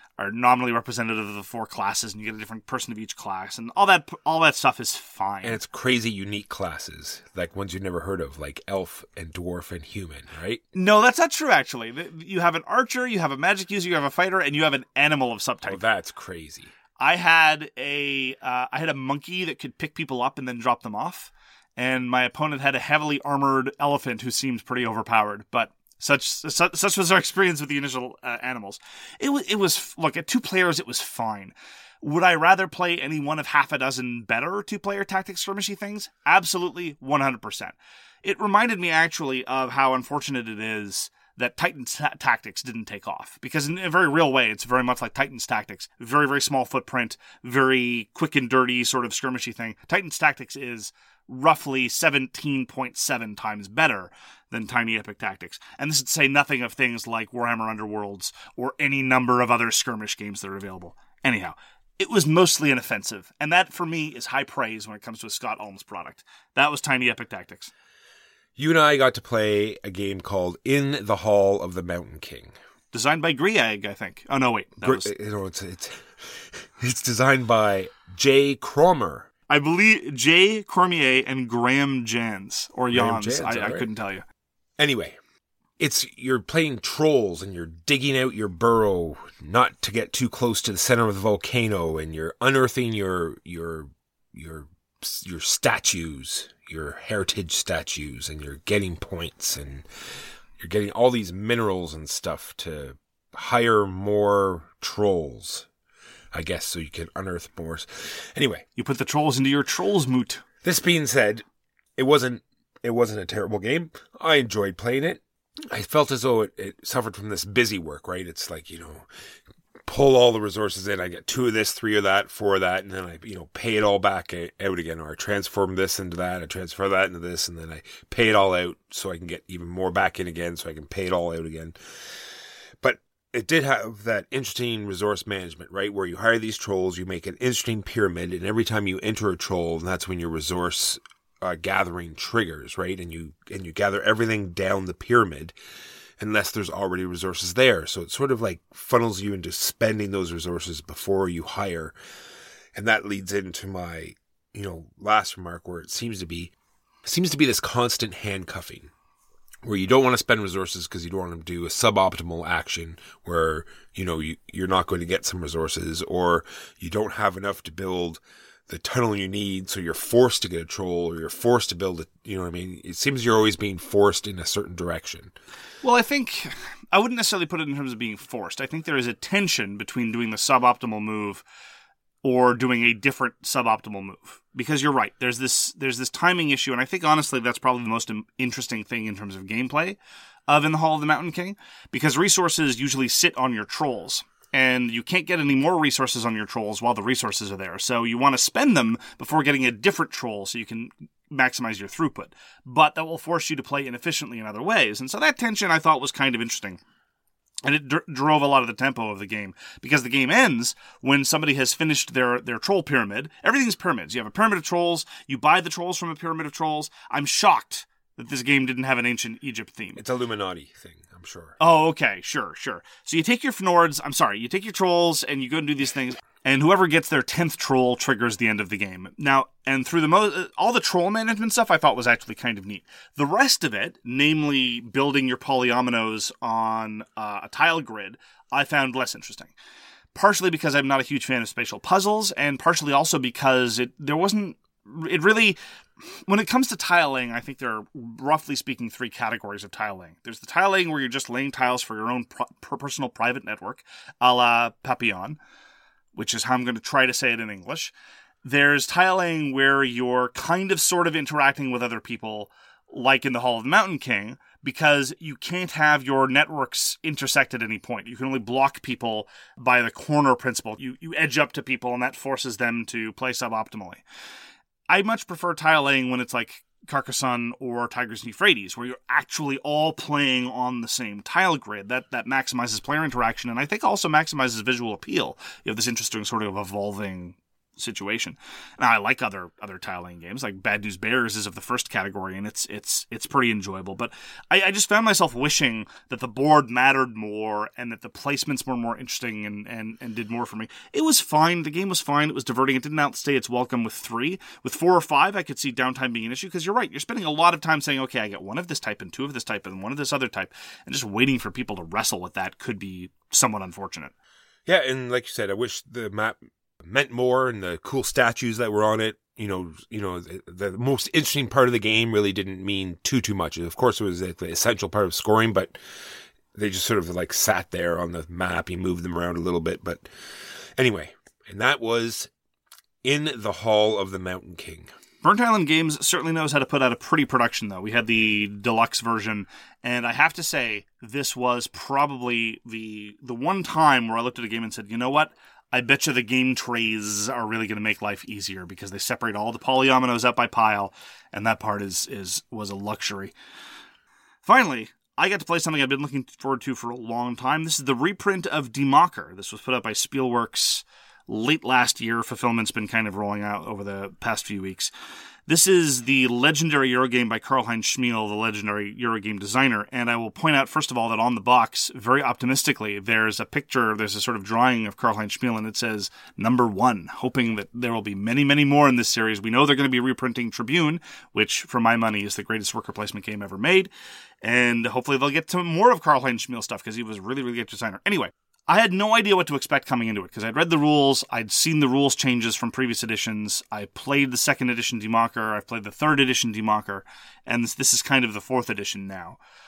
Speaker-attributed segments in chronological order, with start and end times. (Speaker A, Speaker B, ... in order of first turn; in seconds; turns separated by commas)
Speaker A: 0.2-5.6, Speaker B: 5.4-10.6, Speaker A: 10.7-15.8, Speaker B: 15.6-16.7, Speaker A: 17.0-67.7, Speaker B: 68.6-72.5, Speaker A: 72.9-75.1, Speaker B: 74.8-79.3, Speaker A: 79.5-84.2, Speaker B: 82.9-83.9, Speaker B: 84.8-85.2, Speaker B: 85.8-99.9, Speaker B: 100.6-105.7, Speaker B: 106.3-108.7, Speaker A: 108.8-110.4, Speaker B: 110.6-111.4, Speaker B: 112.0-119.1, Speaker B: 119.8-132.2, Speaker B: 132.8-145.6, Speaker B: 146.2-151.9, Speaker B: 152.8-156.5, Speaker B: 157.1-158.9, Speaker B: 159.6-175.3, Speaker A: 175.8-181.4, Speaker A: 182.2-190.0, Speaker A: 190.5-206.8, Speaker A: 207.6-220.0, Speaker B: 220.0-221.6, Speaker A: 221.6-239.5, Speaker A: 240.2-245.6, Speaker A: 246.3-255.4, Speaker A: 256.2-257.9, Speaker A: 258.4-274.0, Speaker A: 274.9-314.1, Speaker B: 314.7-325.8, Speaker B: 326.5-332.3, Speaker B: 333.0-334.9, Speaker A: 335.2-353.3, Speaker A: 354.4-364.9, Speaker A: 365.5-383.9, Speaker A: 384.4-399.4